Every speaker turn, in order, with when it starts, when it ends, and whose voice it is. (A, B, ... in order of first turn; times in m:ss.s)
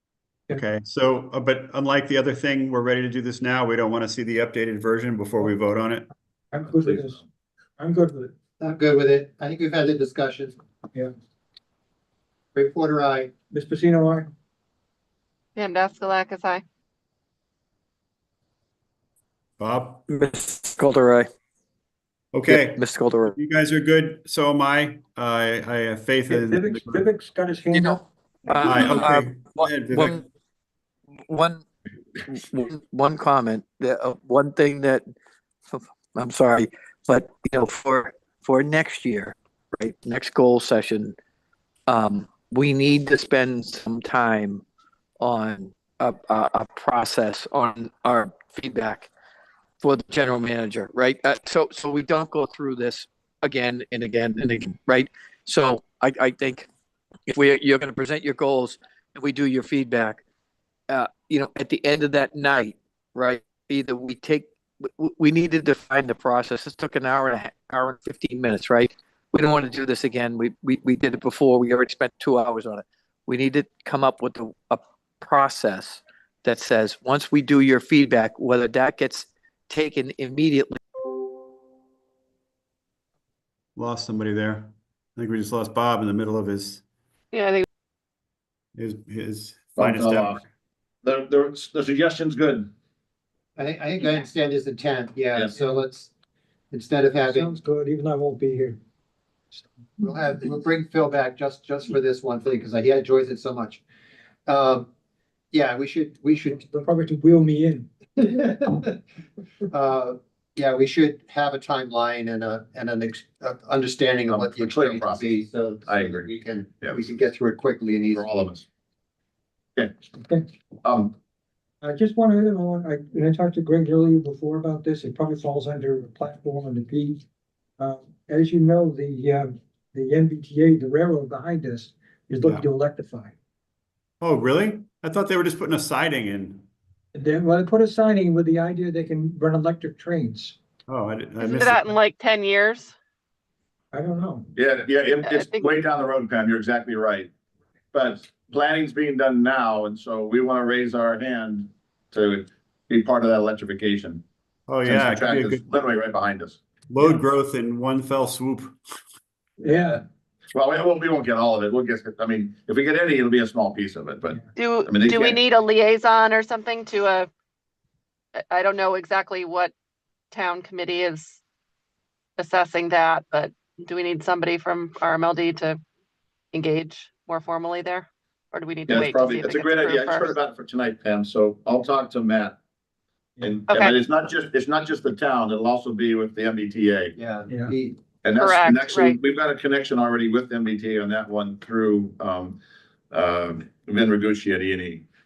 0:00.5-0:06.1 A
0:06.5-0:07.2 B
0:07.8-0:08.3 B
0:08.6-0:10.6 C
0:12.6-0:13.3 C
0:13.5-0:14.3 B
0:15.6-0:16.6 D
0:19.6-0:20.1 A
0:20.2-0:21.3 E
0:22.3-0:27.0 A
0:22.7-0:23.4 E
0:26.3-0:29.1 B
0:27.7-0:28.0 E
0:28.6-0:29.0 D
0:28.6-0:30.2 A
0:28.8-0:29.2 E
0:31.3-0:31.6 E
0:32.6-0:35.1 E
0:35.7-0:41.1 E
0:41.9-0:44.6 E
0:45.2-0:49.1 E
0:49.8-0:56.7 E
0:57.3-1:00.2 E
1:00.9-1:04.5 E
1:05.0-1:20.8 E
1:23.8-1:26.8 A
1:27.3-1:27.6 D
1:28.8-1:30.4 A
1:29.8-1:30.4 F
1:31.0-1:32.7 F
1:33.6-1:36.1 C
1:35.4-1:35.7 F
1:36.7-1:37.5 C
1:37.3-1:38.8 B
1:40.0-1:43.8 C
1:44.5-1:44.9 C
1:45.5-1:46.6 C
1:46.5-1:47.9 B
1:48.2-1:49.0 C
1:49.7-1:58.3 C
1:54.3-1:56.3 F
1:58.1-1:58.7 F
2:00.1-2:00.5 B
2:00.8-2:01.1 F
2:01.8-2:07.2 B
2:07.8-2:13.4 B
2:14.2-2:16.7 A
2:17.1-2:20.6 B
2:20.9-2:21.9 A
2:21.4-2:22.9 D
2:21.8-2:22.5 E
2:23.9-2:24.5 B
2:24.6-2:27.3 F
2:25.2-2:25.6 D
2:27.9-2:34.2 F
2:34.7-2:35.7 A
2:34.8-2:36.6 F
2:36.9-2:38.8 A
2:39.6-2:40.0 B
2:40.5-2:45.4 F
2:44.6-2:47.3 D
2:48.5-2:49.7 D
2:50.3-2:51.4 D
2:52.4-2:55.8 D
2:56.5-2:58.0 D
2:57.0-2:57.6 E
2:58.5-2:59.1 E
2:58.6-3:00.2 D
2:58.9-3:02.6 F
3:03.4-3:07.2 F
3:07.2-3:08.0 C
3:07.5-3:07.8 B
3:08.2-3:12.6 F
3:08.5-3:09.2 D
3:13.1-3:15.0 F